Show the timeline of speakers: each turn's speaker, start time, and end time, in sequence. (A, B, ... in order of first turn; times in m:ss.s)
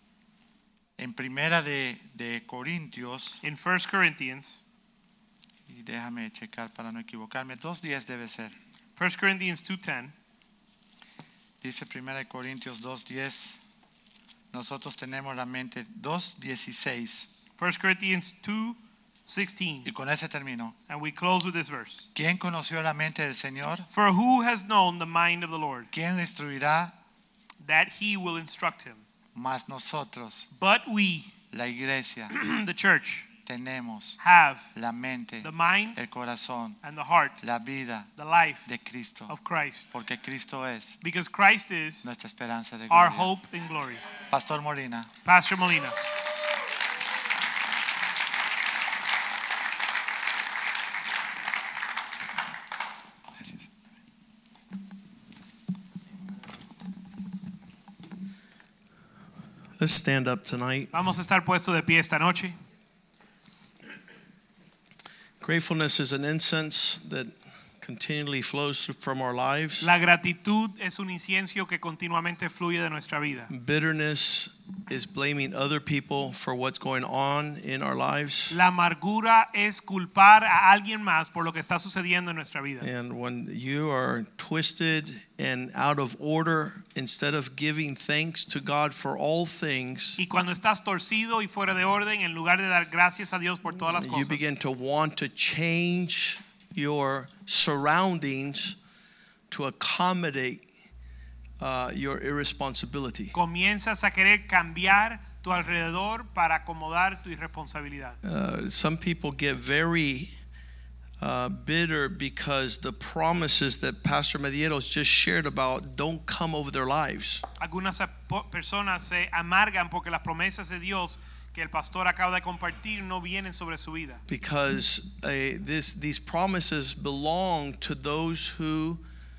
0:01.0-0:03.4 A
0:03.4-0:04.6 B
0:05.7-0:08.5 A
0:09.0-0:10.1 B
0:11.6-0:13.6 A
0:14.5-0:17.3 A
0:17.6-0:19.9 B
0:19.8-0:20.8 A
0:20.9-0:22.1 B
0:22.1-0:23.9 A
0:23.9-0:25.9 B
0:25.9-0:26.9 A
0:27.6-0:29.0 B
0:29.3-0:30.5 A
0:30.5-0:31.3 B
0:31.5-0:32.3 A
0:32.3-0:33.3 B
0:33.4-0:34.2 A
0:34.2-0:34.7 B
0:34.7-0:36.8 A
0:35.4-0:36.0 B
0:36.8-0:37.4 B
0:37.4-0:38.1 A
0:38.2-0:38.7 B
0:38.6-0:39.3 A
0:39.3-0:39.9 B
0:39.9-0:41.0 A
0:41.0-0:42.1 B
0:42.0-0:43.3 A
0:42.9-0:44.0 B
0:44.3-0:45.1 A
0:45.2-0:45.9 B
0:53.4-0:53.6 A
0:59.8-1:00.9 C
1:00.9-1:02.6 B
1:05.4-1:09.9 C
1:09.8-1:13.5 B
1:13.5-1:18.5 C
1:18.5-1:22.9 B
1:22.8-1:30.2 C
1:30.2-1:34.5 B
1:33.7-1:38.8 C
1:39.5-1:40.6 C
1:41.6-1:43.3 C
1:43.3-1:48.2 B
1:48.2-1:50.3 C
1:51.2-1:57.4 C
1:57.6-2:04.2 B
2:04.3-2:09.0 C